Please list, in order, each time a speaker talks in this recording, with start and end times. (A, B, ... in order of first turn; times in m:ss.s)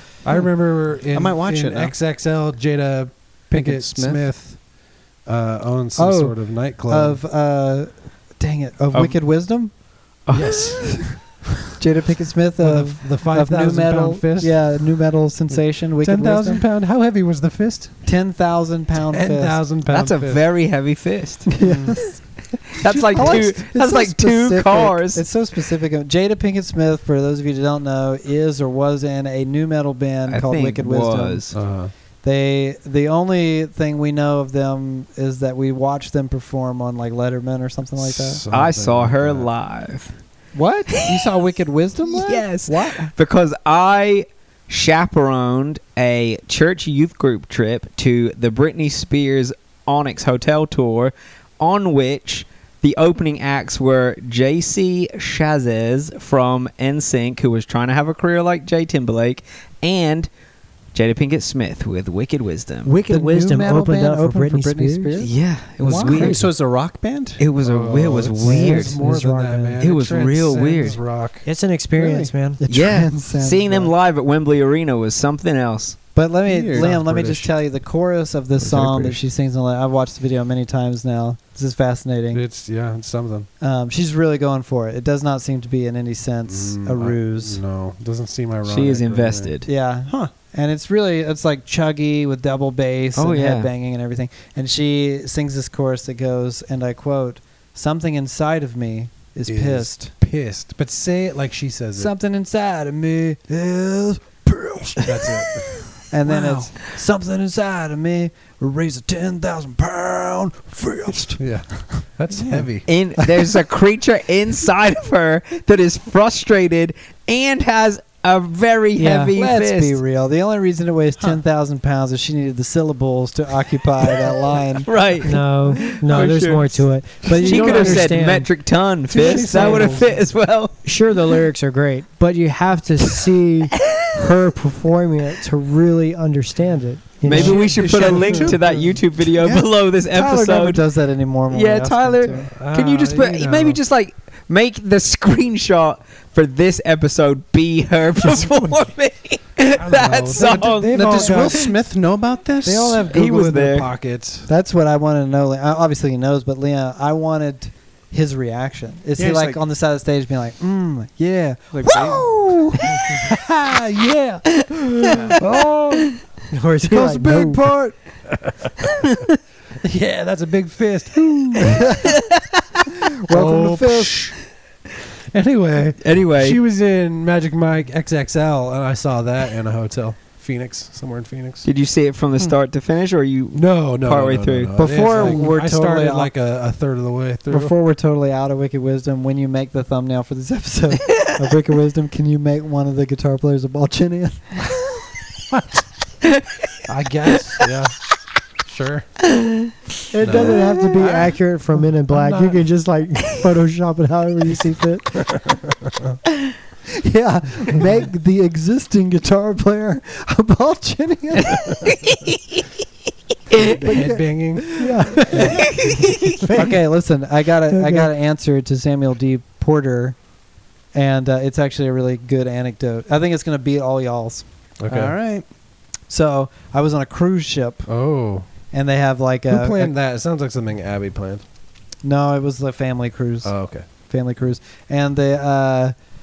0:00.2-0:04.7 A
0:01.1-0:01.9 B
0:03.5-0:04.3 B
0:05.2-0:07.2 A
0:06.0-0:09.7 C
0:10.2-0:11.0 D
0:10.3-0:11.0 A
0:11.8-0:16.6 C
0:12.6-0:14.8 A
0:15.5-0:18.0 A
0:18.0-0:19.6 C
0:19.1-0:20.4 A
0:19.8-0:21.6 D
0:21.6-0:22.0 B
0:21.6-0:22.2 C
0:22.8-0:25.2 D
0:22.8-0:23.5 A
0:23.1-0:38.4 C
0:30.3-0:31.6 D
0:31.5-0:31.9 A
0:38.0-0:39.5 A
0:38.5-0:40.1 D
0:40.5-0:43.1 C
0:42.0-1:00.3 D
1:00.9-1:02.9 D
1:02.8-1:05.2 E
1:03.1-1:05.3 C
1:05.2-1:06.6 D
1:05.8-1:07.5 B
1:07.4-1:09.0 D
1:07.6-1:11.5 A
1:08.4-1:09.8 E
1:09.8-1:11.0 D
1:11.4-1:12.9 E
1:12.0-1:12.3 B
1:12.6-1:13.9 C
1:12.7-1:16.1 D
1:16.1-1:22.4 C
1:16.4-1:17.0 B
1:16.7-1:17.5 A
1:18.6-1:19.2 A
1:18.7-1:19.1 D
1:22.3-1:23.5 A
1:23.6-1:27.6 C
1:26.5-1:29.5 A
1:28.6-1:29.7 D
1:29.6-1:40.1 C
1:30.1-1:30.3 B
1:33.2-1:33.7 D
1:39.5-1:42.1 A
1:41.9-1:45.4 C
1:45.0-1:45.8 A
1:46.0-1:51.4 C
1:46.3-1:46.7 B
1:51.4-1:52.8 A
1:52.3-1:52.7 B
1:52.8-2:00.0 D
1:59.0-1:59.3 E
1:59.3-2:04.9 C
2:04.8-2:10.8 D
2:05.2-2:08.5 E
2:06.1-2:06.7 A
2:07.4-2:08.1 A
2:09.1-2:10.1 A
2:10.8-2:17.9 E
2:17.2-2:20.8 D
2:17.3-2:18.8 B
2:17.4-2:18.6 C
2:19.4-2:22.5 C
2:21.5-2:31.7 D
2:22.3-2:23.8 A
2:29.8-2:31.7 A
2:30.4-2:33.1 B
2:32.6-2:34.5 A
2:33.1-2:33.9 D
2:34.5-2:41.9 C
2:39.2-2:39.6 B
2:41.7-2:42.4 B
2:41.8-2:43.1 D
2:43.2-2:46.0 A
2:44.6-2:45.1 D
2:45.1-2:45.4 B
2:46.5-2:47.6 E
2:46.8-2:48.0 C
2:48.4-2:48.8 A
2:49.8-2:52.1 A
2:51.7-2:52.1 C
2:53.2-2:54.3 C
2:53.3-2:54.4 A
2:55.3-3:01.6 A
2:56.0-2:56.6 D
3:01.6-3:04.7 D
3:03.5-3:07.7 A
3:04.8-3:06.3 C
3:07.5-3:14.7 C
3:15.5-3:15.8 A
3:16.8-3:18.0 A
3:18.6-3:19.2 A
3:20.1-3:25.4 E
3:20.2-3:21.4 A
3:22.1-3:22.6 A
3:27.0-3:31.8 C
3:33.6-3:35.5 A
3:33.8-3:34.2 C
3:34.7-3:35.6 C
3:34.8-3:35.3 E
3:36.5-3:40.2 C
3:37.7-3:38.1 E
3:40.9-3:44.4 C
3:44.8-3:45.2 A
3:44.9-3:45.4 B
3:46.1-3:47.9 C
3:47.9-3:48.5 A
3:48.7-3:49.9 C
3:49.5-3:51.4 A
3:52.0-3:55.9 C
3:53.4-3:53.9 A